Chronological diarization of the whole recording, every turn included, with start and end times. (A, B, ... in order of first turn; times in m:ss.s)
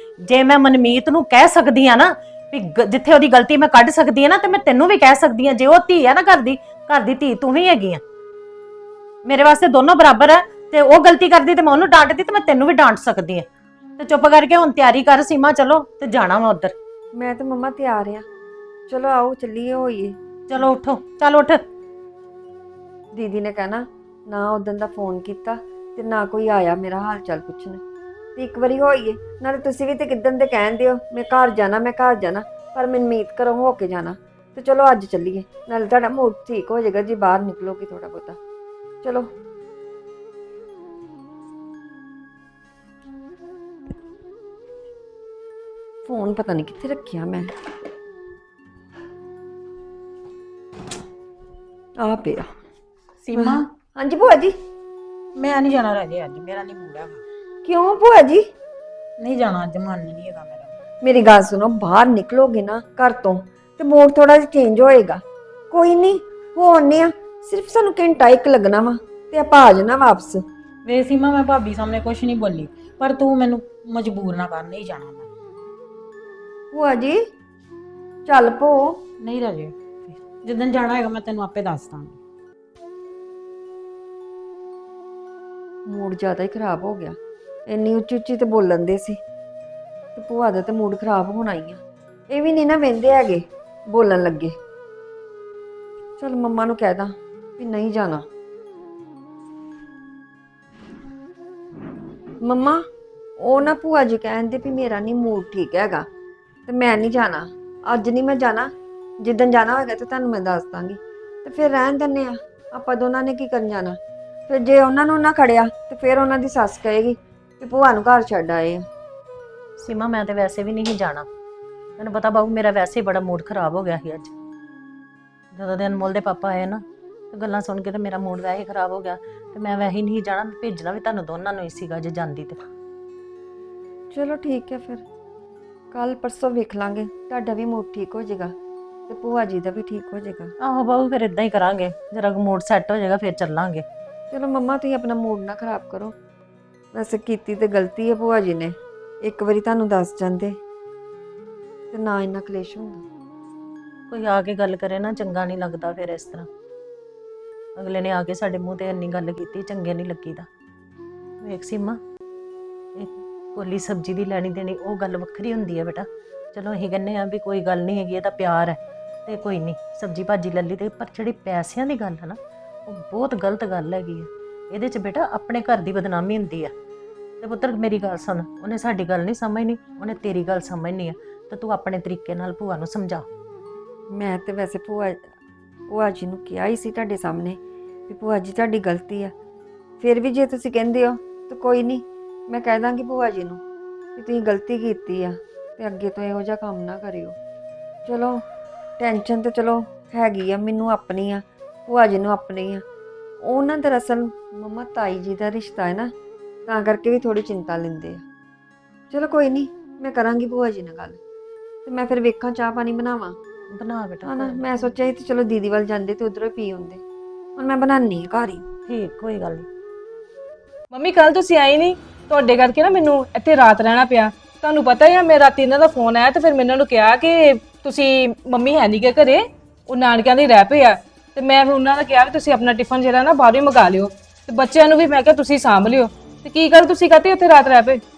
0:00.3-0:08.0 A
0:09.2-0:13.4 A
0:14.0-0:16.7 A
0:17.1-0:18.2 B
0:18.9-0:20.6 B
0:20.5-0:21.6 A
0:23.1-0:27.8 B
0:28.4-0:38.4 B
0:39.0-0:39.3 B
0:46.0-0:47.5 B
0:52.0-0:52.5 B
0:53.2-0:53.6 C
0:53.3-0:54.5 B
0:55.4-0:57.2 C
0:57.6-0:58.4 B
0:59.2-1:00.7 C
1:01.0-1:10.4 B
1:10.8-1:15.3 C
1:16.7-1:17.2 B
1:18.2-1:18.9 B
1:19.2-1:22.2 C
1:25.9-1:27.2 B
1:27.7-1:29.2 B
1:30.2-1:34.5 B
1:36.2-1:38.2 B
1:42.4-1:42.8 B
1:43.4-1:46.0 B
1:46.7-1:48.7 B
1:49.2-1:58.8 B
1:59.8-2:01.3 A
2:02.0-2:04.3 A
2:05.5-2:12.6 A
2:14.1-2:15.0 B
2:15.9-2:18.5 B
2:19.1-2:20.5 B
2:20.6-2:23.8 A
2:24.3-2:26.1 B
2:26.9-2:30.6 B
2:31.9-2:33.0 B
2:34.1-2:36.5 A
2:37.8-2:40.5 A
2:41.4-2:42.0 A
2:42.9-2:56.7 A
2:57.4-3:03.2 A
3:04.1-3:05.2 B
3:05.9-3:09.3 B
3:10.0-3:13.6 B
3:14.2-3:17.3 B
3:18.1-3:18.4 B
3:19.0-3:22.8 B
3:23.4-3:26.1 B
3:26.6-3:28.2 B
3:29.1-3:31.2 B
3:31.8-3:33.4 B
3:33.7-3:34.9 A
3:34.2-3:37.0 B
3:37.6-3:38.6 B
3:38.9-3:39.6 A
3:40.9-3:58.0 D